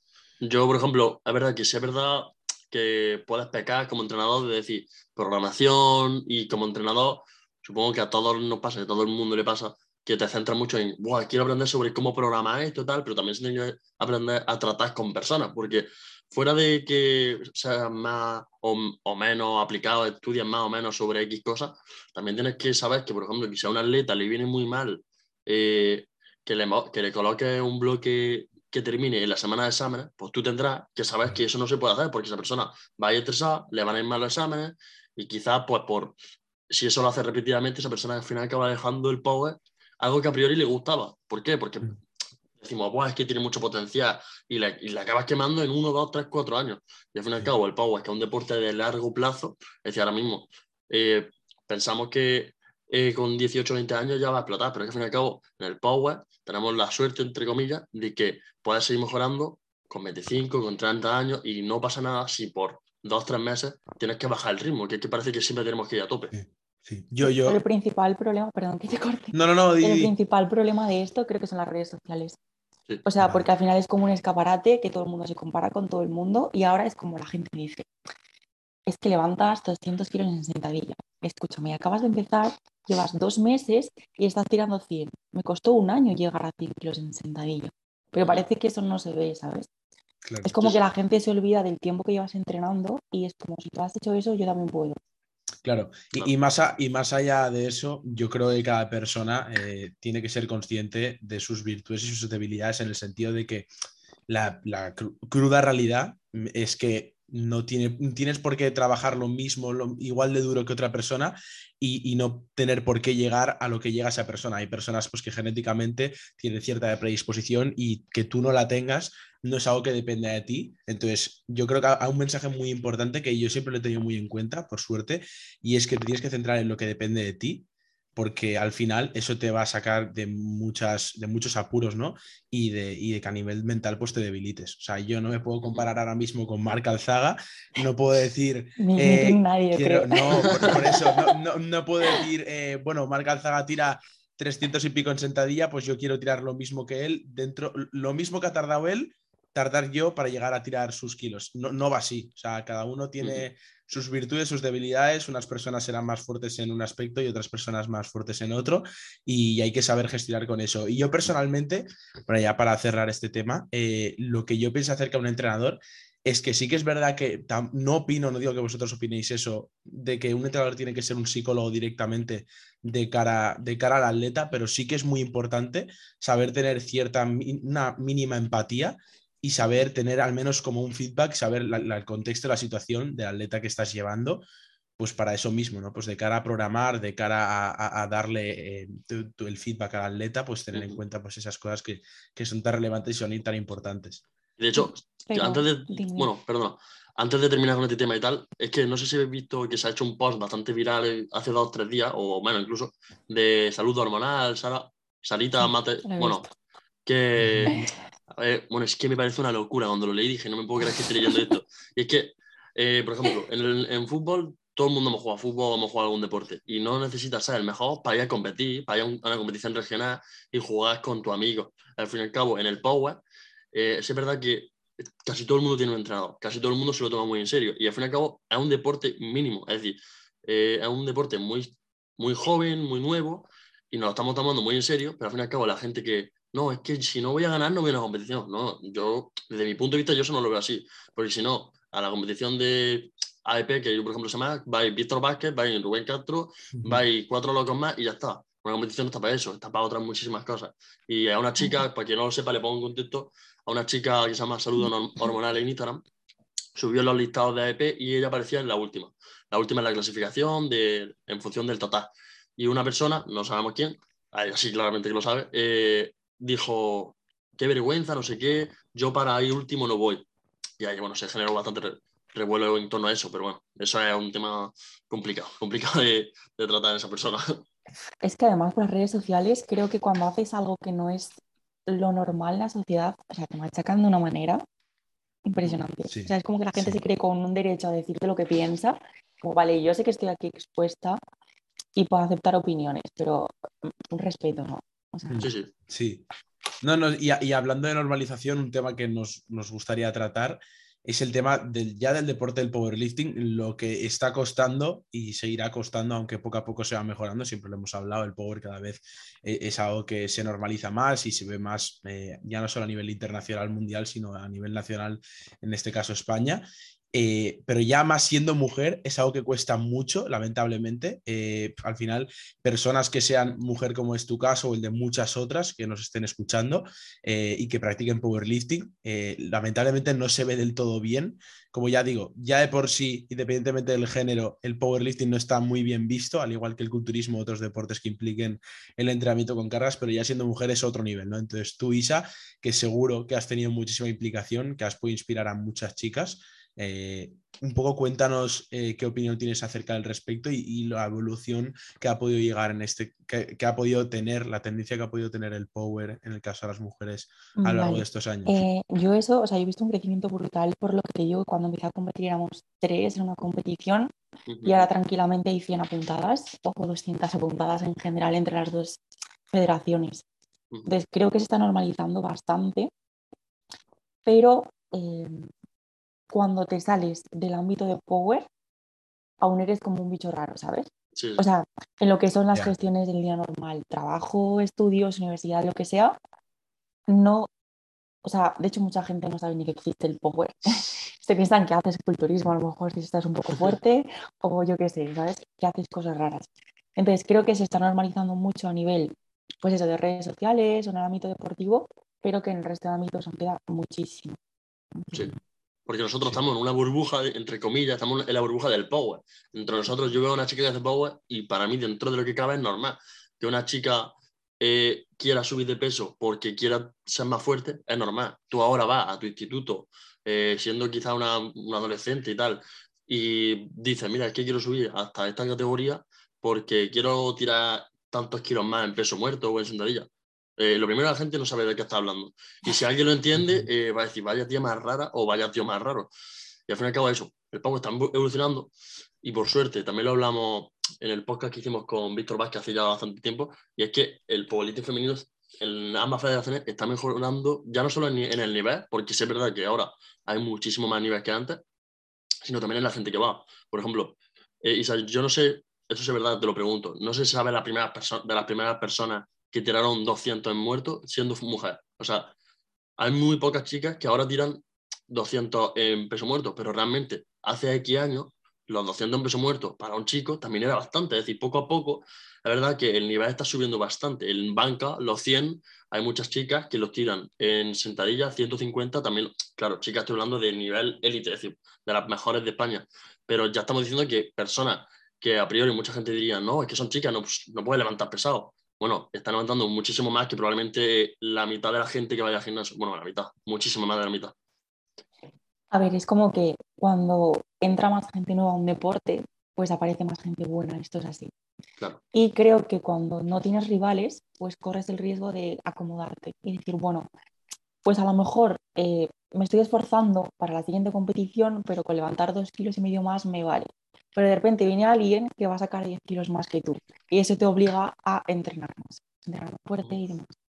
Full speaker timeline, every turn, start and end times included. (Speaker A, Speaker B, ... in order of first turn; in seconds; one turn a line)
Speaker A: 0.4-36.1
Speaker A: 36.7-41.9
Speaker A: 42.6-66.3
Speaker B: 66.3-67.6
Speaker C: 67.2-72.4
Speaker B: 69.3-70.1
Speaker C: 73.0-77.9
Speaker B: 73.2-73.5
Speaker C: 78.9-89.7
Speaker B: 90.2-90.6
Speaker C: 90.4-95.0
Speaker B: 95.6-103.7
Speaker B: 104.3-184.4
Speaker A: 135.6-135.9
Speaker C: 138.8-140.7
Speaker A: 140.6-140.9
Speaker B: 185.0-194.2
Speaker A: 190.7-191.0
Speaker A: 194.6-206.5
Speaker C: 194.8-196.3
Speaker C: 205.6-206.5
Speaker A: 207.1-223.2
Speaker B: 207.4-207.9
Speaker A: 223.7-224.7
Speaker A: 225.2-256.0
Speaker B: 246.8-247.1
Speaker A: 256.8-270.3
Speaker A: 270.8-277.7
Speaker C: 278.2-284.6
Speaker C: 285.5-291.2
Speaker B: 286.1-287.0
Speaker C: 292.0-295.4
Speaker B: 295.3-296.2
Speaker A: 295.4-295.7
Speaker B: 296.8-358.6
Speaker C: 357.6-364.1
Speaker A: 364.5-364.9
Speaker C: 364.6-370.2
Speaker C: 370.9-372.9
Speaker C: 374.2-375.5
Speaker C: 376.3-378.5
Speaker C: 379.4-386.2
Speaker A: 381.2-381.4
Speaker C: 387.1-387.5
Speaker C: 388.2-404.4
Speaker C: 405.0-405.4
Speaker A: 405.9-436.1
Speaker B: 433.4-433.7
Speaker A: 436.7-438.7
Speaker A: 439.2-451.6
Speaker A: 452.4-462.3
Speaker A: 463.0-494.3
Speaker C: 495.7-501.3
Speaker C: 502.1-507.1
Speaker C: 507.9-520.3